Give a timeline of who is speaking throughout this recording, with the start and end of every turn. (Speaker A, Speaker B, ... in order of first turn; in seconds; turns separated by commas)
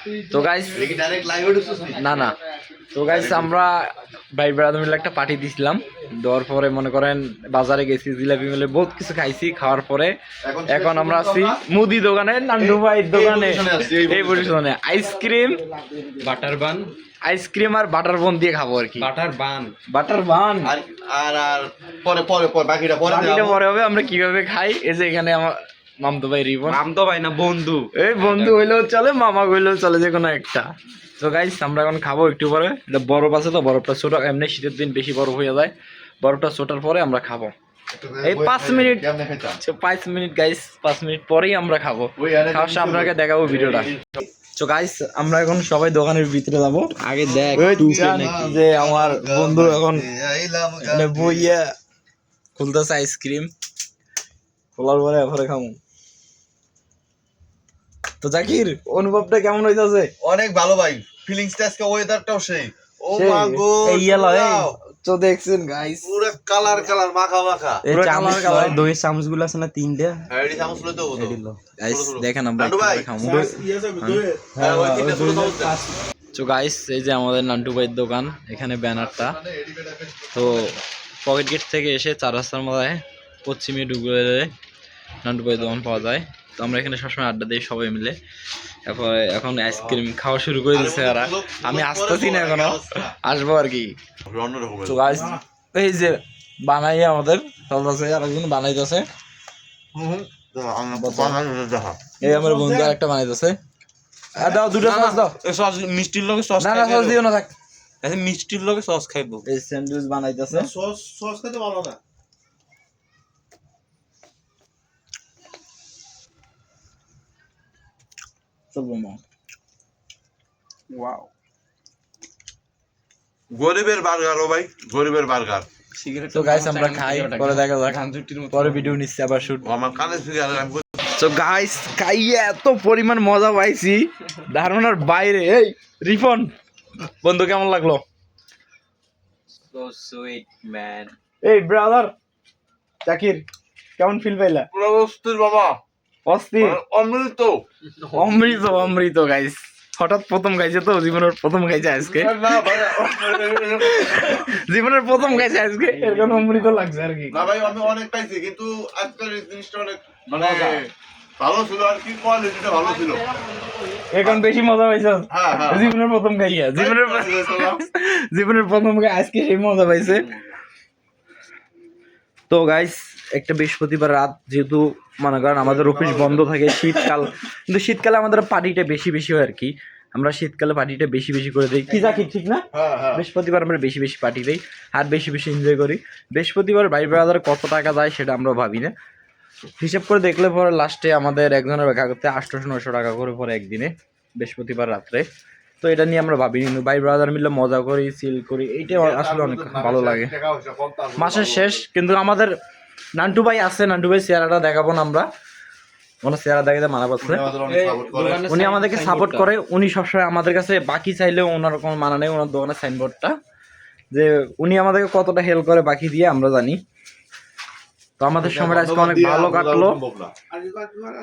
Speaker A: 0.3-0.9, Speaker B: 0.7-2.0, Speaker A: 1.9-2.3, Speaker A: 2.9-10.2, Speaker B: 3.0-3.5, Speaker B: 10.4-11.6, Speaker A: 10.7-15.6, Speaker B: 12.6-14.6, Speaker C: 16.2-16.9, Speaker A: 17.2-19.1, Speaker C: 19.0-19.7, Speaker A: 19.9-20.7, Speaker B: 20.6-23.6, Speaker A: 23.0-26.8, Speaker C: 26.6-28.6, Speaker A: 27.9-37.5, Speaker B: 37.9-39.6, Speaker A: 38.2-39.0, Speaker A: 39.6-43.9, Speaker B: 42.2-44.1, Speaker A: 44.5-46.9, Speaker C: 47.0-48.5, Speaker B: 47.2-51.5, Speaker A: 47.5-50.1, Speaker A: 50.8-51.7, Speaker A: 52.5-53.5, Speaker A: 54.7-55.8, Speaker A: 58.2-60.1, Speaker B: 60.2-64.8, Speaker A: 63.1-63.6, Speaker C: 63.8-64.7, Speaker A: 65.0-66.2, Speaker B: 66.0-67.8, Speaker C: 67.8-70.3, Speaker A: 67.9-68.8, Speaker B: 70.3-73.1, Speaker C: 71.0-71.6, Speaker A: 71.8-74.2, Speaker C: 73.2-75.9, Speaker B: 74.5-75.8, Speaker A: 76.3-79.4, Speaker B: 78.9-80.8, Speaker A: 80.3-84.5, Speaker A: 85.2-88.2, Speaker A: 88.8-94.0, Speaker B: 89.7-90.0, Speaker B: 90.7-93.2, Speaker B: 94.2-95.3, Speaker A: 94.8-99.1, Speaker B: 99.9-102.0, Speaker A: 100.9-101.4, Speaker A: 102.2-103.6, Speaker A: 104.3-105.4, Speaker B: 104.8-105.1, Speaker A: 106.6-107.5, Speaker C: 108.0-109.4, Speaker A: 109.5-110.7, Speaker B: 110.5-112.0, Speaker A: 118.7-119.2, Speaker A: 120.9-121.2, Speaker B: 123.5-125.7, Speaker C: 126.0-129.0, Speaker A: 126.3-128.0, Speaker A: 128.5-129.6, Speaker B: 129.6-130.8, Speaker A: 131.2-136.5, Speaker A: 137.1-138.0, Speaker C: 139.7-141.1, Speaker A: 141.4-142.1, Speaker A: 143.0-143.4, Speaker A: 144.0-144.7, Speaker B: 144.7-145.8, Speaker A: 146.2-146.8, Speaker B: 146.6-147.6, Speaker A: 148.1-157.4, Speaker B: 152.0-154.4, Speaker C: 155.3-156.9, Speaker B: 157.3-163.2, Speaker A: 160.3-160.7, Speaker A: 164.1-170.3, Speaker B: 165.3-165.9, Speaker B: 166.7-167.8, Speaker C: 170.0-170.4, Speaker A: 172.5-188.9, Speaker B: 175.6-176.5, Speaker B: 182.7-183.2, Speaker A: 189.8-195.3, Speaker A: 195.8-200.3, Speaker B: 198.8-201.8, Speaker A: 201.2-202.5, Speaker A: 203.2-205.3, Speaker A: 206.2-207.5, Speaker B: 207.2-208.5, Speaker C: 207.6-209.5, Speaker A: 208.5-213.3, Speaker A: 214.1-216.8, Speaker A: 218.2-220.0, Speaker B: 218.4-220.5, Speaker C: 220.6-221.0